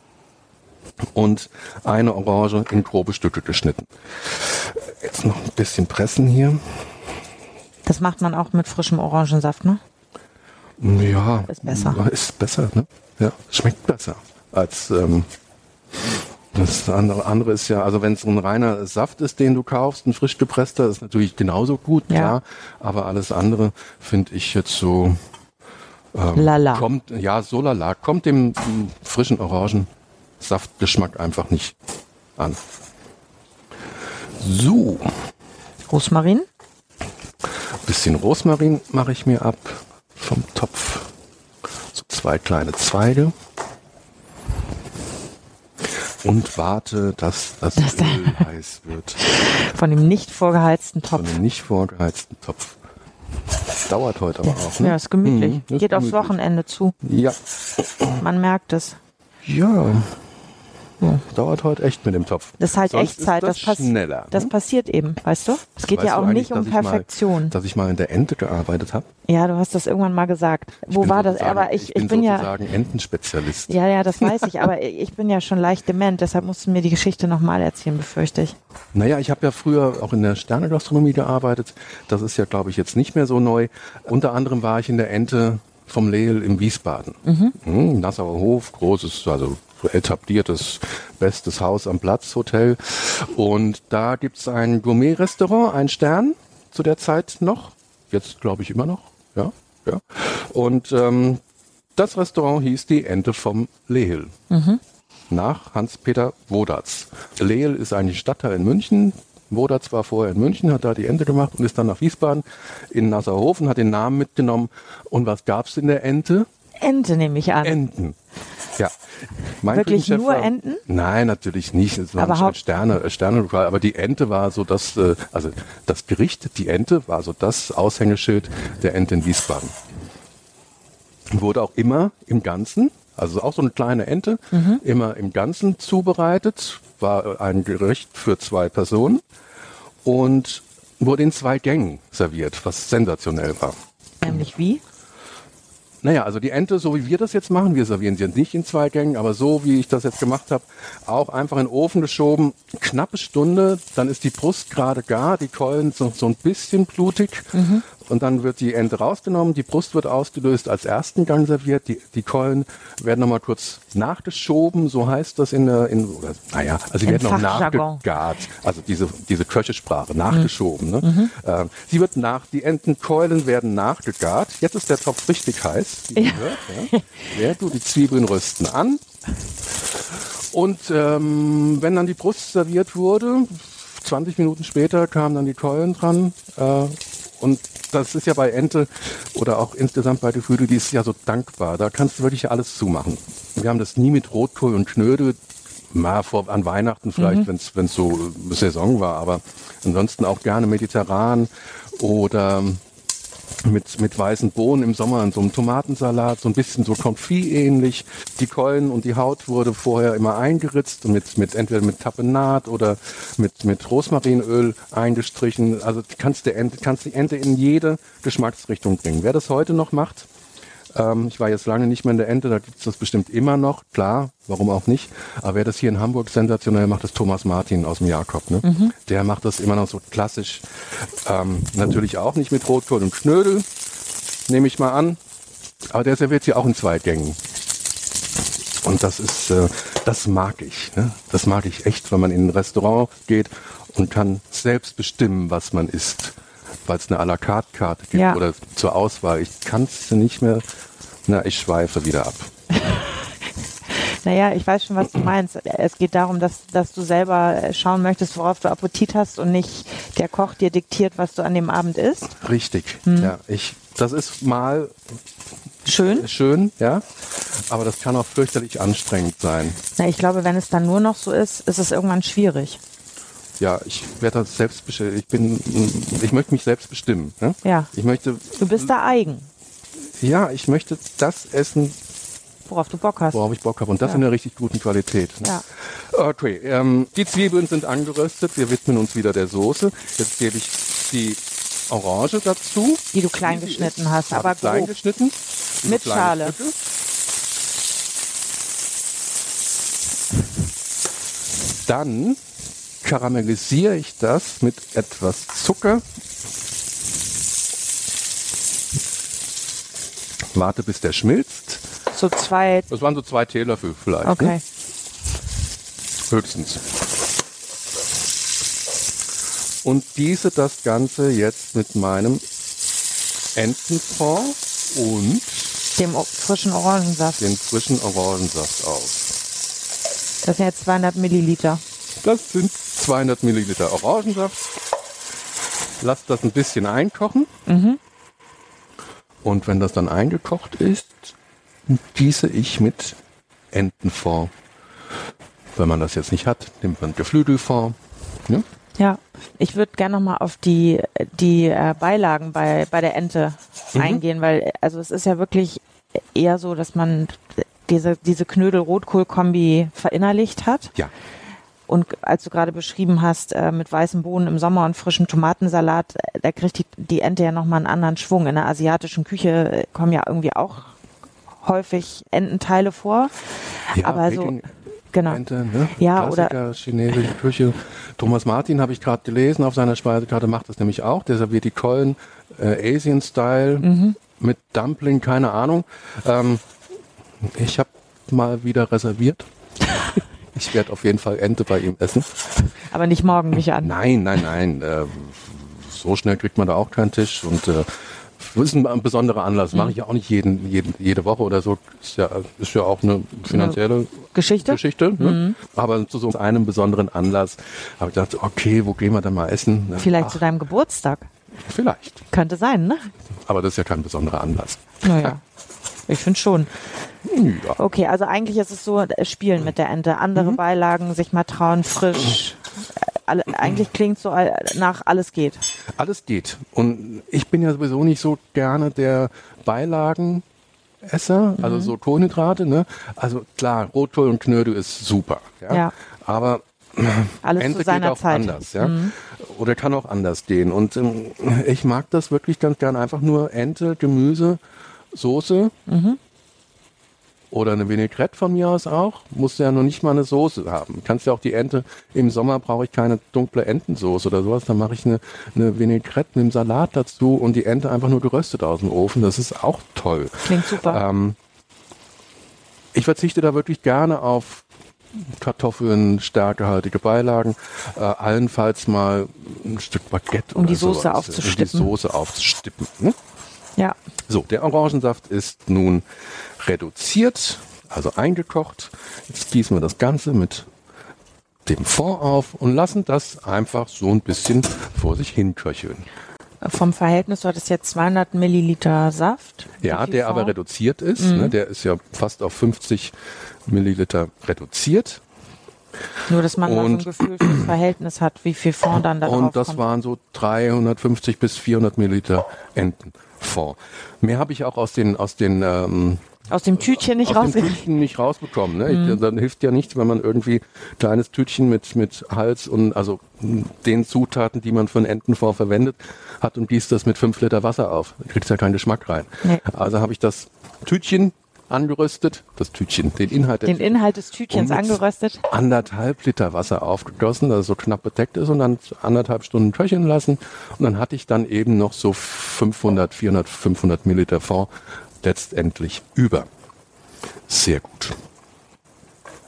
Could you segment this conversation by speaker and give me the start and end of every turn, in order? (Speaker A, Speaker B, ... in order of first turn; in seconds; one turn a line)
Speaker A: 1.1-6.7
Speaker B: 7.8-9.8
Speaker A: 10.8-15.3
Speaker B: 11.5-12.0
Speaker A: 16.5-25.2
Speaker B: 22.1-22.4
Speaker A: 26.1-29.9
Speaker B: 26.3-26.9
Speaker A: 30.4-31.8
Speaker A: 34.4-35.2
Speaker B: 35.9-36.5
Speaker A: 37.8-41.1
Speaker A: 41.9-43.3
Speaker A: 46.2-49.2
Speaker B: 47.8-48.4
Speaker B: 49.3-51.3
Speaker A: 51.1-52.8
Speaker A: 53.8-56.4
Speaker B: 54.7-57.0
Speaker A: 57.0-57.4
Speaker B: 58.2-59.0
Speaker A: 59.4-60.2
Speaker A: 61.2-64.5
Speaker B: 62.6-67.5
Speaker A: 65.9-69.1
Speaker B: 69.3-72.5
Speaker A: 70.9-74.3
Speaker B: 73.7-78.5
Speaker A: 78.9-101.4
Speaker B: 87.2-87.5
Speaker A: 102.0-104.3
Speaker B: 104.5-104.8
Speaker A: 105.3-116.5
Speaker B: 116.8-117.8
Speaker A: 117.6-118.2
Speaker A: 119.6-129.8
Speaker B: 119.7-120.8
Speaker B: 122.2-122.5
Speaker A: 131.3-139.2
Speaker B: 134.5-134.8
Speaker A: 140.0-143.8
Speaker B: 144.2-144.8
Speaker A: 146.0-179.0
Speaker B: 157.5-157.8
Speaker B: 167.0-168.0
Speaker B: 171.0-171.3
Speaker B: 176.1-177.0
Speaker A: 180.5-195.4
Speaker A: 195.9-202.8
Speaker B: 197.2-197.5
Speaker A: 203.6-220.3
Speaker A: 220.9-233.7
Speaker B: 228.6-228.9
Speaker A: 234.5-235.2
Speaker A: 235.9-237.4
Speaker A: 238.8-250.6
Speaker B: 248.1-248.4
Speaker A: 251.3-252.5
Speaker B: 252.7-253.3
Speaker B: 253.9-262.3
Speaker A: 262.4-264.9
Speaker B: 263.0-263.3
Speaker B: 265.8-266.3
Speaker A: 266.0-269.8
Speaker B: 270.0-272.8
Speaker A: 273.6-278.9
Speaker B: 277.6-277.9
Speaker B: 278.6-279.5
Speaker A: 280.2-282.0
Speaker B: 282.7-283.4
Speaker A: 283.3-296.7
Speaker B: 293.1-294.9
Speaker B: 295.8-296.5
Speaker A: 301.8-302.4
Speaker A: 303.0-306.0
Speaker A: 310.5-311.8
Speaker B: 312.1-312.9
Speaker A: 312.9-314.6
Speaker B: 314.2-314.6
Speaker A: 316.3-316.8
Speaker A: 319.8-322.4
Speaker A: 323.5-325.8
Speaker B: 325.9-327.4
Speaker A: 327.4-329.3
Speaker B: 330.4-331.8
Speaker A: 332.2-334.7
Speaker A: 336.0-337.5
Speaker B: 337.7-338.0
Speaker A: 339.4-341.3
Speaker A: 341.9-343.2
Speaker A: 343.7-344.5
Speaker A: 345.7-348.6
Speaker B: 349.0-355.8
Speaker A: 353.9-354.2
Speaker B: 356.3-360.9
Speaker B: 361.9-370.9
Speaker B: 371.6-374.5
Speaker A: 373.9-374.7
Speaker B: 375.1-375.4
Speaker A: 375.3-386.6
Speaker B: 376.0-376.5
Speaker B: 383.8-384.2
Speaker A: 387.4-389.4
Speaker A: 390.5-392.4
Speaker B: 392.9-393.9
Speaker A: 393.8-410.4
Speaker B: 403.5-403.8
Speaker B: 404.3-405.6
Speaker B: 410.0-411.3
Speaker A: 411.6-412.2
Speaker B: 412.3-413.1
Speaker A: 413.5-415.3
Speaker B: 415.0-415.4
Speaker B: 416.1-416.7
Speaker A: 417.2-417.8
Speaker B: 417.8-425.6
Speaker A: 425.9-430.4
Speaker A: 431.0-444.6
Speaker B: 431.6-431.9
Speaker B: 437.4-439.1
Speaker A: 445.1-445.7
Speaker B: 445.9-446.2
Speaker A: 447.5-461.4
Speaker B: 460.4-461.0
Speaker A: 462.9-464.6
Speaker A: 465.2-473.2
Speaker B: 470.5-471.9
Speaker A: 474.3-476.1
Speaker A: 476.6-480.7
Speaker A: 481.6-486.1
Speaker B: 486.6-490.5
Speaker A: 489.8-493.1
Speaker B: 491.2-491.5
Speaker A: 493.6-495.2
Speaker B: 496.3-499.8
Speaker A: 496.6-497.7
Speaker A: 499.2-506.2
Speaker B: 506.5-507.8
Speaker A: 506.8-534.7
Speaker B: 508.9-509.2
Speaker B: 523.6-525.4
Speaker A: 535.2-536.5
Speaker A: 537.5-538.2